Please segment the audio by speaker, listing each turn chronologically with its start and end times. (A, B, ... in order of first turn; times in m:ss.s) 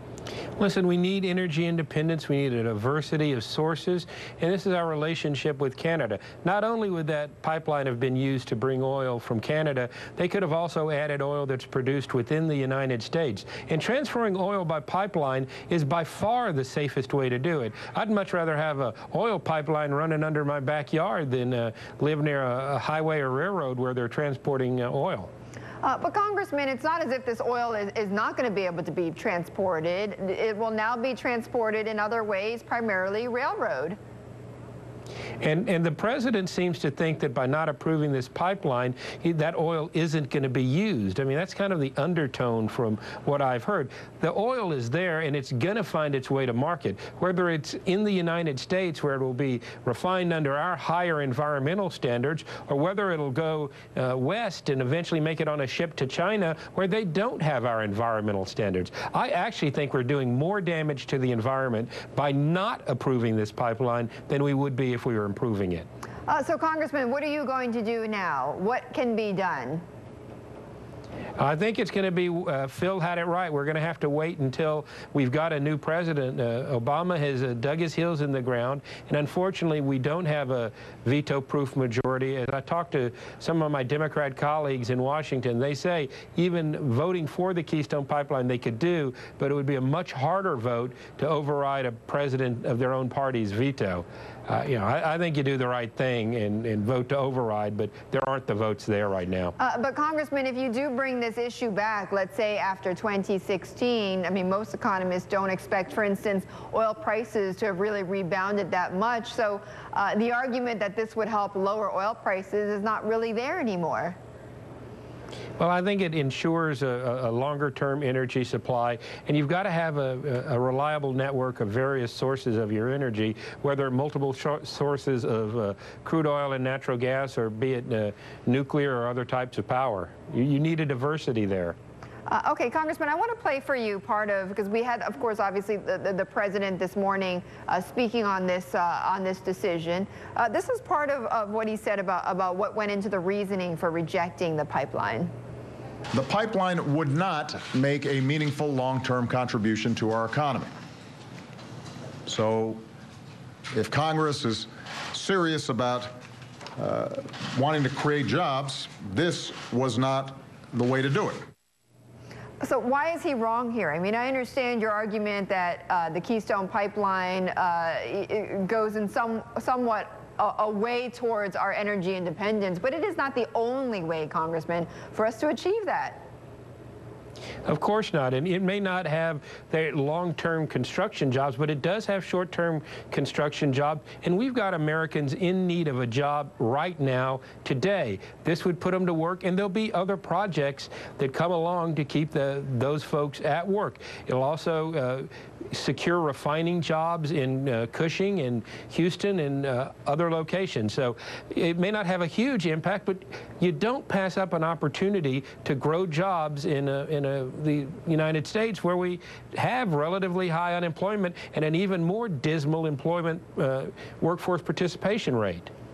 0:00.6-0:25.3 A
0:25.8-0:34.0 B
0:35.4-1:05.9 A
1:06.3-1:09.8 B
1:11.4-1:39.6 A
1:39.6-1:54.2 B
1:55.6-2:11.8 A
2:12.3-2:25.3 B
2:26.1-2:30.7 C
2:32.3-2:32.8 C
2:33.7-2:36.2 C
2:36.8-2:41.5 C
2:42.6-2:56.3 B
2:57.7-3:35.7 A